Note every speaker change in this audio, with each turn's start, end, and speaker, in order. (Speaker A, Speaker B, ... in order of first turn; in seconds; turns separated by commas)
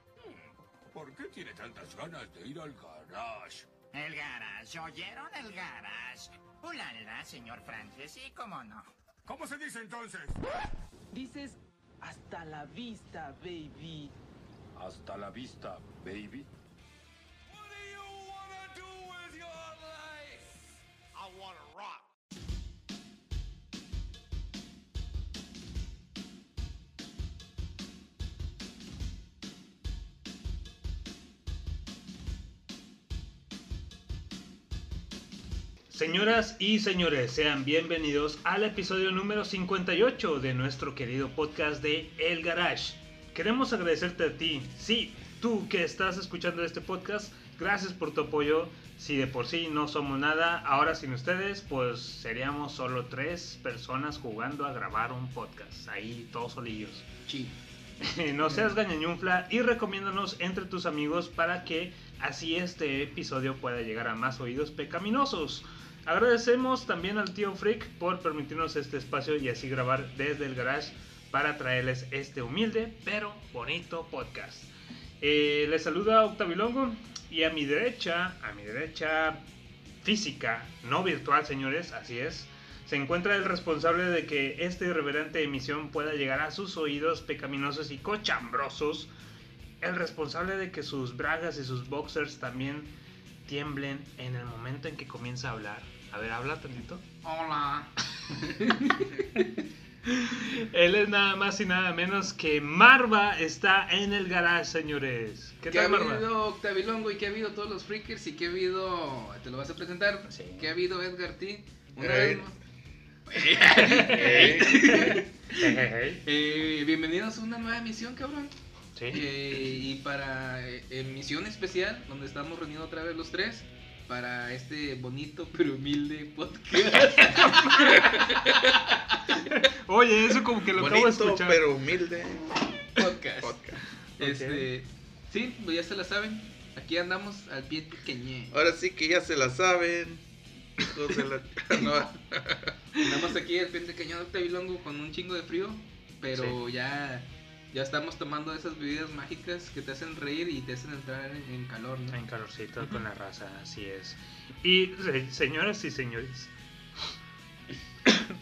Speaker A: 0.9-3.7, Speaker B: 3.9-8.9, Speaker A: 9.2-10.4, Speaker C: 11.1-14.1, Speaker A: 14.7-16.5, Speaker A: 17.5-22.0, Speaker D: 35.9-57.0, Speaker E: 57.3-57.5, Speaker D: 58.0-79.4, Speaker D: 80.0-89.1, Speaker D: 89.8-92.9, Speaker D: 93.5-97.0, Speaker E: 97.2-99.5, Speaker D: 100.0-106.2, Speaker E: 105.7-112.5, Speaker D: 110.3-110.7, Speaker F: 112.0-112.4, Speaker E: 113.3-118.5, Speaker D: 113.6-116.2, Speaker F: 113.9-115.0, Speaker D: 119.0-119.3, Speaker E: 119.1-129.4, Speaker D: 126.9-128.6, Speaker D: 129.3-131.6, Speaker F: 130.7-132.7, Speaker E: 132.9-133.6, Speaker F: 133.4-133.8, Speaker D: 134.2-134.7, Speaker E: 134.2-138.5, Speaker F: 138.5-140.2, Speaker F: 140.8-142.8, Speaker E: 142.9-152.2, Speaker D: 152.1-156.5